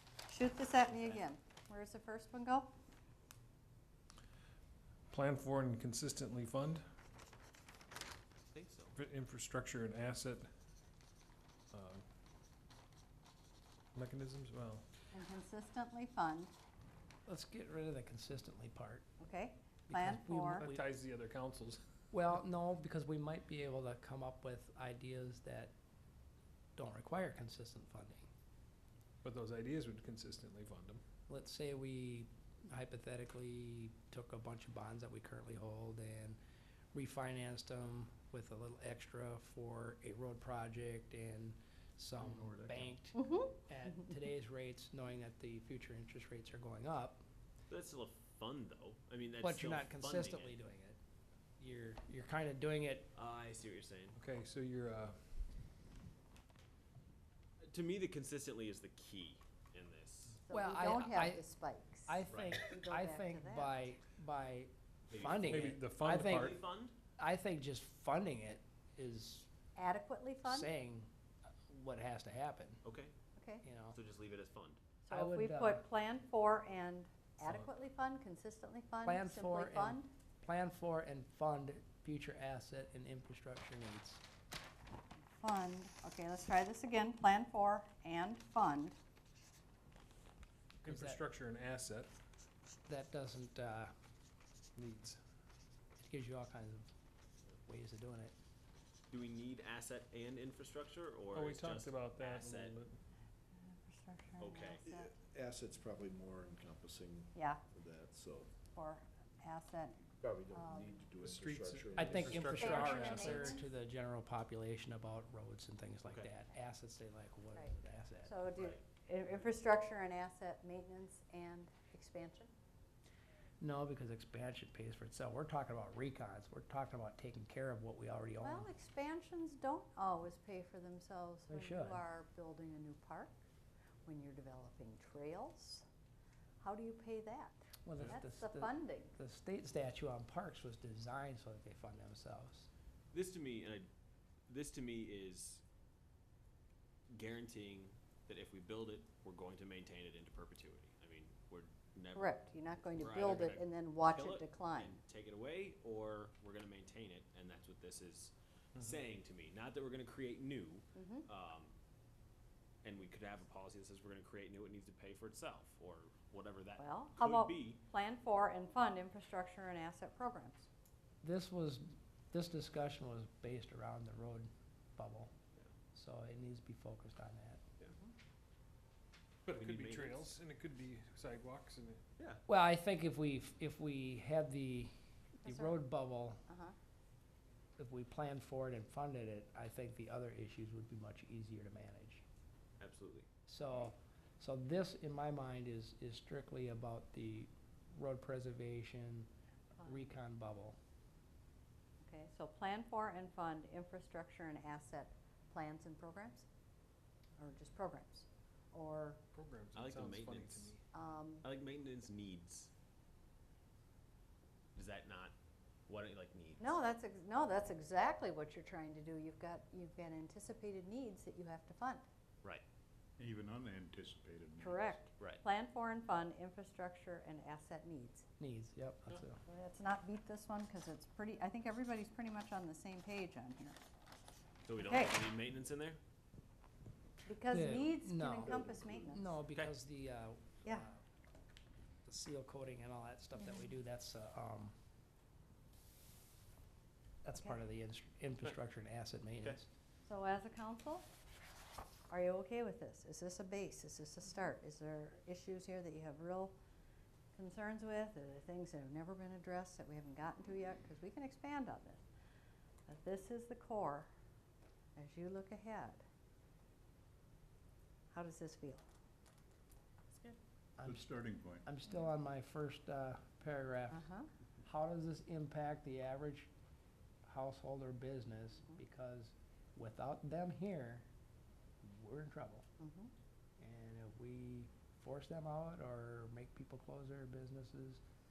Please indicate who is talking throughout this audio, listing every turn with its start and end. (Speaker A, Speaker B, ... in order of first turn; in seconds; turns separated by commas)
Speaker A: 0.3-2.7, Speaker B: 0.9-1.2, Speaker C: 5.1-6.8, Speaker B: 8.5-8.9, Speaker C: 8.9-10.5, Speaker C: 11.7-12.0, Speaker C: 13.9-14.8, Speaker A: 15.1-16.5, Speaker D: 17.2-19.0, Speaker A: 19.2-20.7, Speaker D: 19.9-20.8, Speaker C: 20.6-21.8, Speaker D: 22.1-25.7, Speaker D: 26.8-28.3, Speaker C: 29.2-31.0, Speaker D: 31.3-36.4, Speaker D: 36.9-47.2, Speaker E: 42.3-42.8, Speaker A: 43.1-43.5, Speaker B: 47.7-50.5, Speaker D: 49.4-51.0, Speaker D: 51.6-53.1, Speaker B: 53.1-54.1, Speaker C: 54.1-55.2, Speaker B: 57.6-60.4, Speaker A: 60.4-63.9, Speaker D: 60.5-61.4, Speaker D: 62.1-66.6, Speaker B: 62.3-62.6, Speaker B: 65.1-66.9, Speaker C: 65.2-66.6, Speaker D: 67.2-69.5, Speaker A: 69.7-70.7, Speaker D: 70.4-71.1, Speaker D: 71.7-72.8, Speaker B: 72.8-73.1, Speaker A: 73.4-73.6, Speaker D: 73.6-74.0, Speaker B: 73.9-74.8, Speaker A: 75.0-80.1, Speaker D: 75.1-75.8, Speaker C: 77.4-77.7, Speaker D: 79.0-84.2, Speaker A: 85.4-89.0, Speaker D: 90.8-91.2, Speaker C: 90.8-92.2, Speaker D: 92.9-93.9, Speaker C: 94.8-95.2, Speaker D: 96.0-96.9, Speaker D: 97.6-98.3, Speaker B: 99.1-102.7, Speaker C: 101.3-103.0, Speaker A: 103.6-105.1, Speaker B: 104.4-104.8, Speaker E: 104.8-108.5, Speaker A: 107.3-107.6, Speaker A: 108.7-111.0, Speaker E: 110.2-112.8, Speaker C: 111.2-113.6, Speaker D: 112.0-118.4, Speaker A: 112.3-113.7, Speaker A: 118.2-122.5, Speaker D: 123.6-128.7, Speaker A: 128.4-133.3, Speaker D: 131.5-132.0, Speaker A: 134.1-135.8, Speaker A: 136.6-139.1, Speaker D: 137.8-142.7, Speaker B: 143.1-143.9, Speaker B: 144.5-145.6, Speaker B: 147.1-152.4, Speaker A: 152.2-155.0, Speaker B: 152.9-161.7, Speaker A: 160.9-161.2, Speaker B: 162.8-167.8, Speaker A: 166.8-170.7, Speaker D: 171.2-175.3, Speaker D: 175.9-177.6, Speaker C: 179.4-182.0, Speaker B: 179.5-180.3, Speaker D: 182.4-186.4, Speaker A: 185.4-185.8, Speaker A: 186.5-186.7, Speaker D: 187.8-192.2, Speaker B: 192.8-193.3, Speaker D: 193.5-199.3, Speaker A: 199.8-200.1, Speaker D: 199.8-200.8, Speaker A: 202.0-206.4, Speaker A: 207.4-209.2, Speaker C: 209.3-210.8, Speaker B: 209.7-210.7, Speaker A: 210.9-211.4, Speaker B: 211.4-212.7, Speaker B: 214.7-215.3, Speaker B: 215.9-216.8, Speaker A: 216.6-222.0, Speaker F: 223.2-225.0, Speaker A: 224.6-228.2, Speaker D: 228.4-229.4, Speaker A: 229.5-233.8, Speaker B: 234.7-236.0, Speaker A: 234.8-235.2, Speaker A: 237.2-239.3, Speaker D: 237.5-241.0, Speaker D: 242.1-244.7, Speaker A: 243.4-243.7, Speaker D: 247.2-249.7, Speaker A: 250.0-251.1, Speaker A: 252.1-256.5, Speaker A: 257.3-262.0, Speaker A: 262.9-264.1, Speaker A: 264.9-266.0, Speaker A: 268.1-268.8, Speaker D: 270.8-274.1, Speaker F: 270.8-271.6, Speaker A: 273.9-274.3, Speaker D: 274.6-276.5, Speaker D: 277.2-281.1, Speaker D: 281.8-282.7, Speaker A: 282.8-283.1, Speaker D: 283.6-288.0